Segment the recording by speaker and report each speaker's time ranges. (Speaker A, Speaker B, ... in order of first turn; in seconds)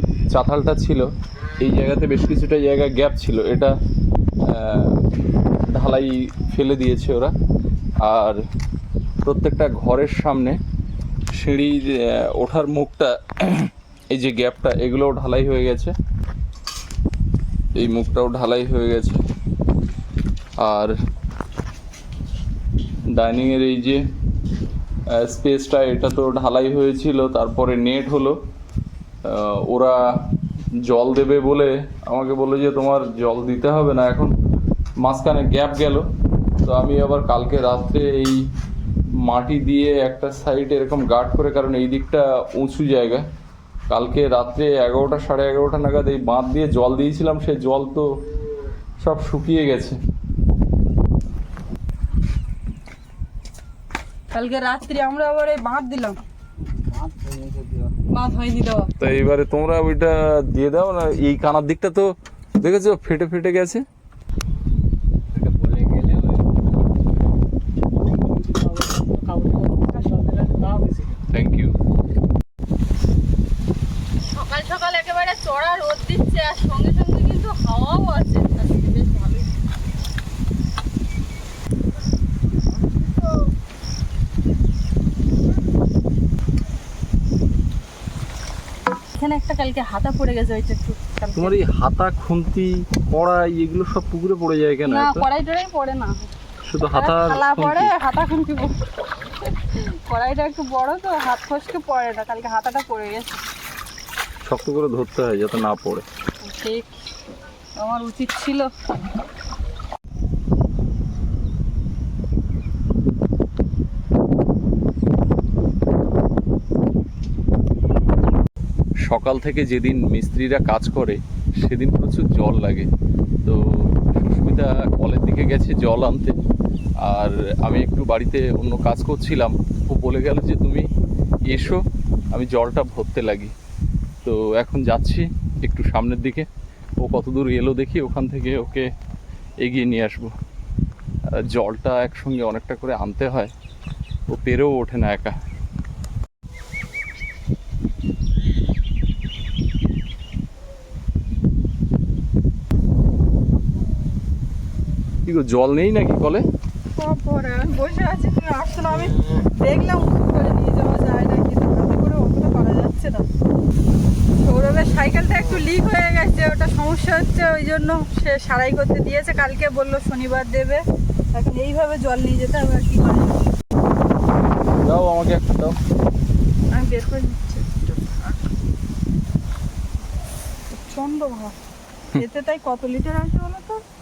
Speaker A: 0.3-3.8, 4.4-5.0, 5.7-7.3, 8.0-8.4, 9.2-10.6, 11.3-15.9, 17.7-19.2, 20.6-20.9, 23.1-24.0, 25.1-28.4, 29.2-30.0, 30.8-34.3, 35.0-36.0, 36.6-38.4, 39.2-43.2, 43.9-48.1, 49.0-50.0, 59.0-63.8, 71.3-71.8, 91.3-95.2, 96.6-97.9, 104.5-106.0, 119.1-122.9, 123.4-126.3, 127.0-130.9, 131.5-133.5, 134.2-136.5, 137.0-138.9, 139.6-140.3, 141.3-143.5, 144.3-145.3, 155.2-156.4, 174.8-175.8
Speaker B: 54.3-56.2, 58.1-58.9, 74.3-79.5, 89.2-91.6, 94.9-96.3, 96.9-98.7, 99.6-103.4, 106.4-106.9, 107.8-108.7, 156.9-163.2, 164.4-170.8, 171.3-173.4, 176.7-178.4, 180.7-181.5, 182.1-183.8
Speaker C: 56.9-57.9, 65.3-66.5, 68.2-71.2